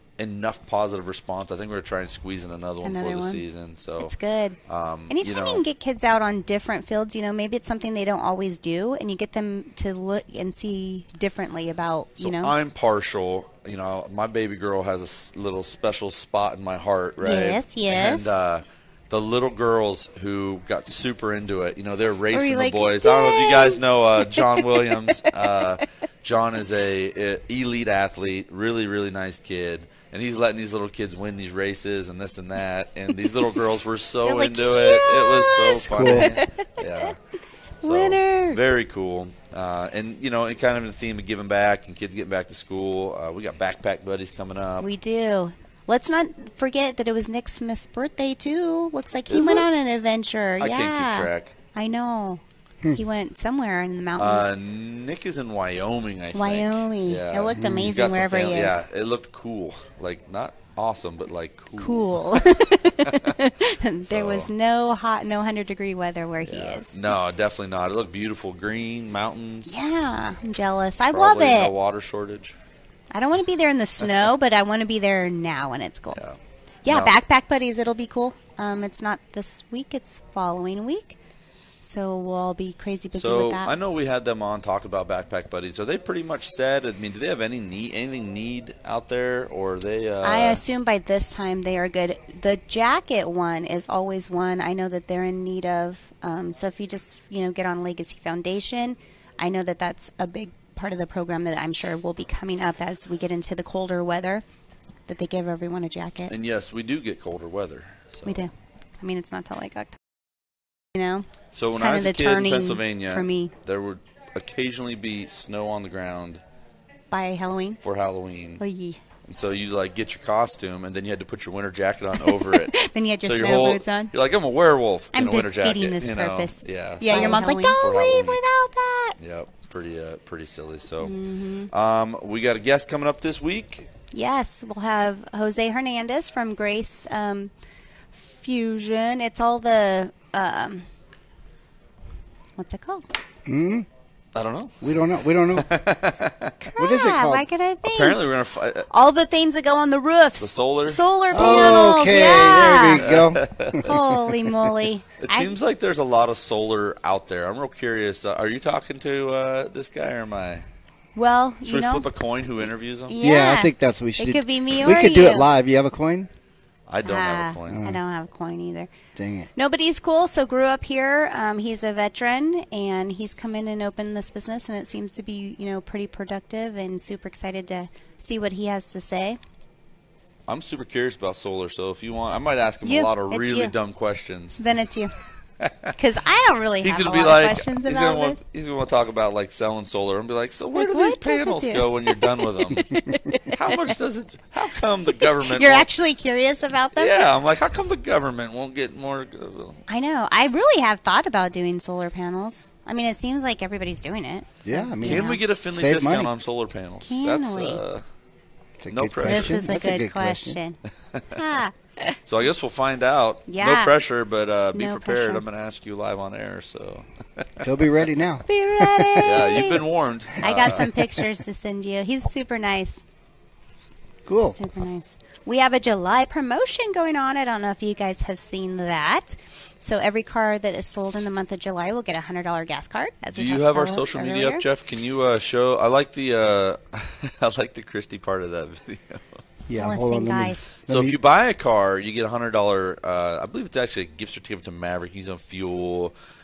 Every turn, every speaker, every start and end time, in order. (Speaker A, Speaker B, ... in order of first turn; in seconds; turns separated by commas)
Speaker A: 0.2-4.1, Speaker B: 2.8-3.4, Speaker B: 4.0-4.6, Speaker A: 4.7-5.6, Speaker B: 5.1-12.5, Speaker A: 12.2-37.2, Speaker B: 17.2-18.3, Speaker B: 22.3-25.6, Speaker B: 34.2-37.1, Speaker C: 35.9-36.3, Speaker B: 37.8-38.6, Speaker A: 37.8-44.9, Speaker B: 44.8-52.4, Speaker A: 49.3-49.7, Speaker A: 50.6-51.5, Speaker B: 52.9-54.5, Speaker A: 54.2-63.3, Speaker B: 56.3-58.8, Speaker C: 57.5-58.0, Speaker B: 61.8-67.0, Speaker A: 64.1-64.5, Speaker A: 66.4-69.8, Speaker B: 69.7-71.7, Speaker A: 71.1-72.5, Speaker B: 73.1-76.2, Speaker A: 76.1-77.1, Speaker B: 76.8-81.2, Speaker B: 81.8-83.7, Speaker A: 83.1-90.6, Speaker B: 90.2-104.4, Speaker B: 105.1-106.3, Speaker A: 106.3-108.5, Speaker B: 108.2-110.0, Speaker B: 110.9-113.5, Speaker A: 111.5-116.4, Speaker B: 117.1-117.8, Speaker A: 117.8-118.6, Speaker B: 118.6-119.0, Speaker A: 119.3-128.4, Speaker B: 122.2-124.1, Speaker B: 125.1-129.2, Speaker A: 129.2-131.1, Speaker B: 131.0-131.7, Speaker A: 131.7-133.9, Speaker B: 134.1-137.5, Speaker B: 138.1-140.9, Speaker B: 142.6-143.1, Speaker C: 143.4-143.9, Speaker A: 144.3-145.0, Speaker C: 144.8-145.7, Speaker A: 145.5-146.5, Speaker B: 146.6-148.2, Speaker C: 146.8-147.4, Speaker A: 147.8-148.9, Speaker B: 148.9-153.1, Speaker A: 150.4-154.2, Speaker C: 151.3-153.8, Speaker B: 153.8-155.5, Speaker A: 155.2-160.6, Speaker B: 161.1-162.1, Speaker A: 161.7-163.2, Speaker B: 163.1-165.5, Speaker C: 163.2-166.3, Speaker A: 166.9-167.8, Speaker B: 167.0-168.9, Speaker C: 167.7-168.0, Speaker C: 169.1-169.5, Speaker B: 169.5-179.4, Speaker A: 180.5-184.6, Speaker B: 182.8-183.7, Speaker B: 184.6-185.1, Speaker A: 185.6-185.9, Speaker B: 185.9-188.4, Speaker A: 186.8-193.0, Speaker B: 190.7-193.9, Speaker A: 193.5-195.9, Speaker B: 195.2-197.3, Speaker A: 196.9-199.8, Speaker B: 199.9-205.4, Speaker C: 204.6-206.3, Speaker A: 205.0-208.0, Speaker B: 207.0-207.8, Speaker C: 208.8-210.6, Speaker A: 208.9-209.6, Speaker B: 209.2-210.8, Speaker A: 211.1-211.4, Speaker B: 211.3-212.2, Speaker A: 212.2-217.6, Speaker B: 213.5-213.9, Speaker B: 214.7-215.4, Speaker C: 217.6-219.2, Speaker B: 218.5-219.8, Speaker A: 219.2-220.9, Speaker B: 220.4-223.0, Speaker C: 224.2-224.6, Speaker B: 224.4-234.6, Speaker A: 233.3-239.4, Speaker C: 239.7-241.2, Speaker B: 239.7-240.7, Speaker A: 240.9-246.1